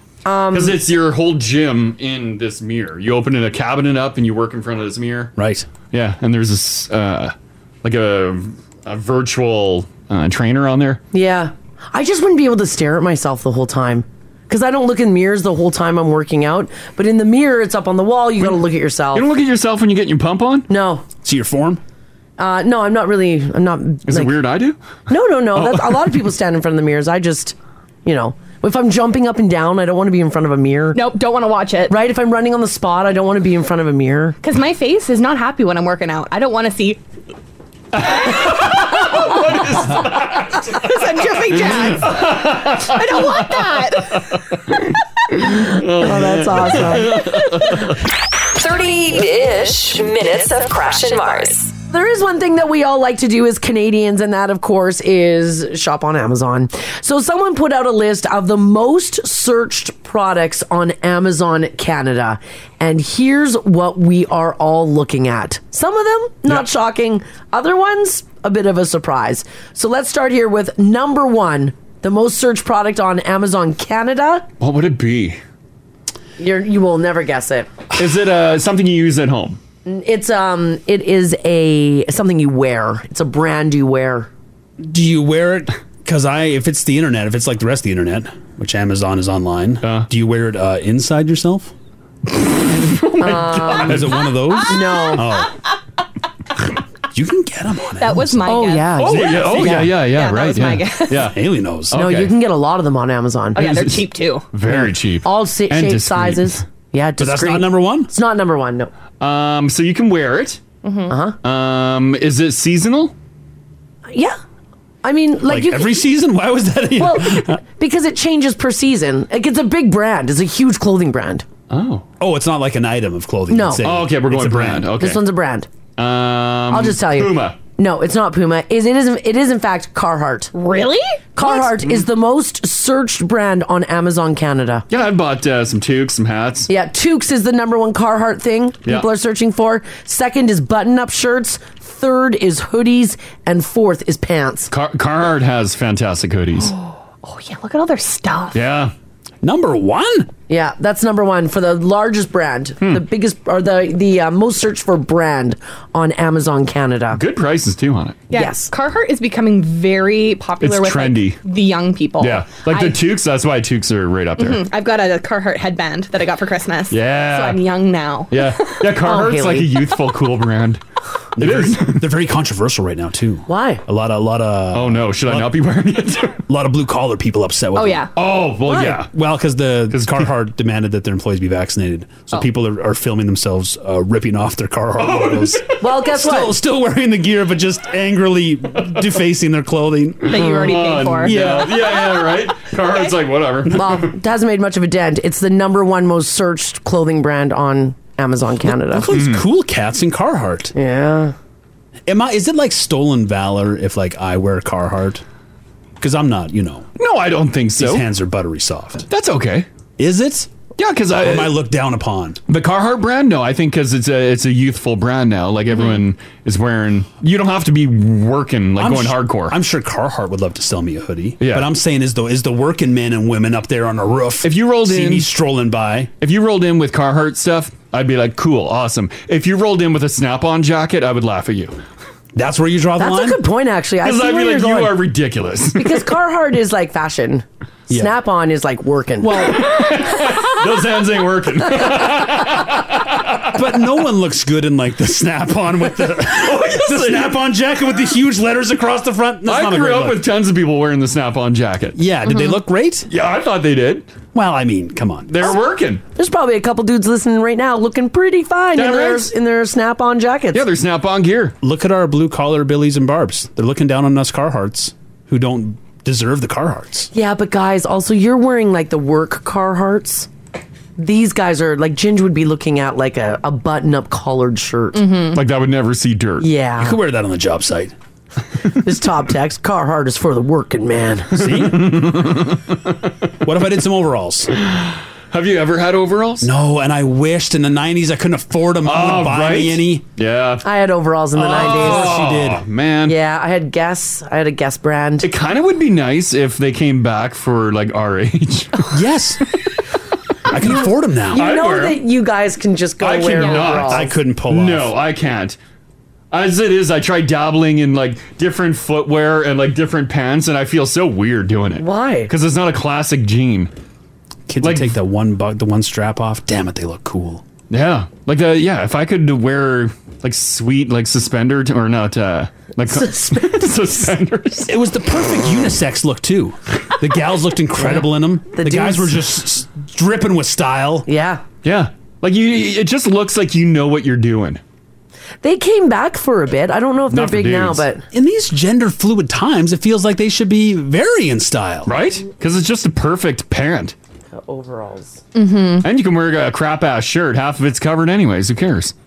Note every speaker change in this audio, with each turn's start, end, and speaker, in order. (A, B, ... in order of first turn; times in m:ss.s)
0:00.2-0:00.8 A
0:00.5-0:05.3 B
0:05.4-0:05.7 C
0:05.9-0:11.0 B
0:11.1-0:19.2 A
0:19.1-0:20.7 B
0:20.7-0:21.0 A
0:21.2-0:21.8 C
0:22.4-0:24.4 A
0:24.1-0:24.8 B
0:25.1-0:31.0 A
0:25.5-0:26.1 B
0:30.9-0:32.0 D
0:31.9-0:34.4 A
0:34.4-0:37.0 D
0:37.9-0:44.4 B
0:38.9-0:44.4 D
0:45.4-0:48.0 B
0:45.6-0:47.4 A
0:48.5-0:51.7 E
0:51.9-1:14.4 A
1:14.6-1:15.4 B
1:16.4-1:17.7 A
1:17.9-1:19.6 B
1:19.8-1:24.3 A
1:24.8-1:31.7 C
1:32.3-1:34.2 B
1:33.2-1:34.1 A
1:33.8-1:35.5 C
1:34.6-1:35.2 A
1:37.1-1:38.5 C
1:38.0-1:41.3 D
1:38.4-1:39.9 A
1:39.0-1:41.4 B
1:39.2-1:39.8 C
1:41.2-1:42.0 C
1:41.9-1:42.3 B
1:41.9-1:43.6 A
1:43.5-1:44.4 D
1:43.6-1:46.6 B
1:45.2-1:48.9 A
1:47.2-1:48.1 C
1:49.2-1:50.6 B
1:50.8-1:51.2 D
1:51.1-1:51.4 A
1:51.4-1:53.1 B
1:54.1-1:54.4 A
1:55.0-1:56.0 A
1:55.4-1:57.6 C
1:57.0-2:01.4 A
2:01.7-2:02.0 B
2:02.2-2:05.0 C
2:03.5-2:03.8 A
2:03.8-2:05.2 B
2:05.0-2:05.7 A
2:06.0-2:07.6 B
2:06.7-2:10.5 A
2:10.5-2:11.2 D
2:11.4-2:14.8 A
2:11.4-2:11.7 B
2:14.9-2:16.7 B
2:16.7-2:24.7 A
2:24.7-2:26.7 B
2:26.6-2:28.6 D
2:28.5-2:28.9 B
2:29.4-2:30.3 C
2:30.5-2:37.2 A
2:37.1-2:38.2 B
2:38.3-2:43.0 D
2:38.3-2:38.7 A
2:40.6-2:41.4 B
2:42.2-2:44.6 B
2:44.4-2:48.8 D
2:46.9-2:47.6 B
2:48.3-2:50.8 B
2:49.0-2:49.7 A
2:51.4-2:55.5 C
2:51.4-2:52.1 B
2:53.5-2:53.8 A
2:54.7-2:56.4 B
2:56.5-2:58.1 C
2:57.8-2:58.1 D
2:58.1-2:59.1 B
2:58.7-2:59.0 A
2:58.7-3:12.0 C
2:59.9-3:00.3 B
3:05.0-3:05.7 B
3:05.8-3:06.6 A
3:10.3-3:11.4 D
3:10.3-3:14.1 B
3:13.7-3:19.1 A
3:18.6-3:20.7 C
3:19.1-3:19.4 B
3:20.7-3:21.3 A
3:22.1-3:25.2 C
3:26.0-3:26.9 C
3:27.0-3:28.0 B
3:27.8-3:29.0 C
3:29.1-3:29.6 B
3:30.0-3:30.5 C
3:30.8-3:31.5 B
3:31.2-3:32.4 C
3:32.5-3:39.6 B
3:38.8-3:46.1 C
3:41.4-3:41.7 B
3:44.4-3:45.3 B
3:46.2-3:51.8 B
3:52.3-3:53.4 C
3:53.0-3:55.0 A
3:54.0-3:56.0 B
3:55.7-3:59.4 A
3:57.9-3:58.2 C
3:59.3-4:03.9 B
4:03.5-4:10.2 C
4:06.3-4:07.3 B
4:09.4-4:12.0 B
4:12.0-4:13.1 C
4:13.1-4:14.1 B
4:14.3-4:15.3 C
4:15.3-4:16.0 B
4:16.1-4:20.6 A
4:18.7-4:19.3 B
4:20.5-4:21.6 B
4:21.6-4:27.1 C
4:27.1-4:30.3 A
4:31.0-4:35.2 A
4:34.9-4:35.3 D
4:35.3-4:36.5 B
4:36.4-4:37.0 A
4:36.8-4:37.9 C
4:38.8-4:41.4 A
4:41.3-4:42.1 C
4:41.4-4:43.1 B
4:43.4-4:44.5 C
4:44.6-4:46.5 B
4:46.4-4:50.0 C
4:48.8-4:50.6 B
4:50.6-4:52.2 A
4:51.4-4:53.2 B
4:51.4-4:52.6 C
4:53.0-4:55.3 A
4:55.2-4:58.9 B
4:58.9-4:59.4 C
5:00.5-5:01.4 C
5:01.3-5:02.0 B
5:01.3-5:04.0 A
5:03.0-5:05.6 B
5:03.4-5:03.8 D
5:03.8-5:04.9 C
5:06.3-5:13.7 B
5:11.8-5:12.3 A
5:14.5-5:17.4 C
5:14.6-5:14.9 B
5:17.7-5:24.7 B
5:22.9-5:23.7 A
5:24.7-5:31.1 C
5:27.8-5:29.2 A
5:31.0-5:31.4 A
5:31.6-5:34.6 B
5:35.4-5:38.0 A
5:37.1-5:37.8 B
5:38.1-5:41.9 C
5:41.8-5:43.9 B
5:44.3-5:45.2 A
5:45.3-5:45.9 D
5:45.8-5:48.9 B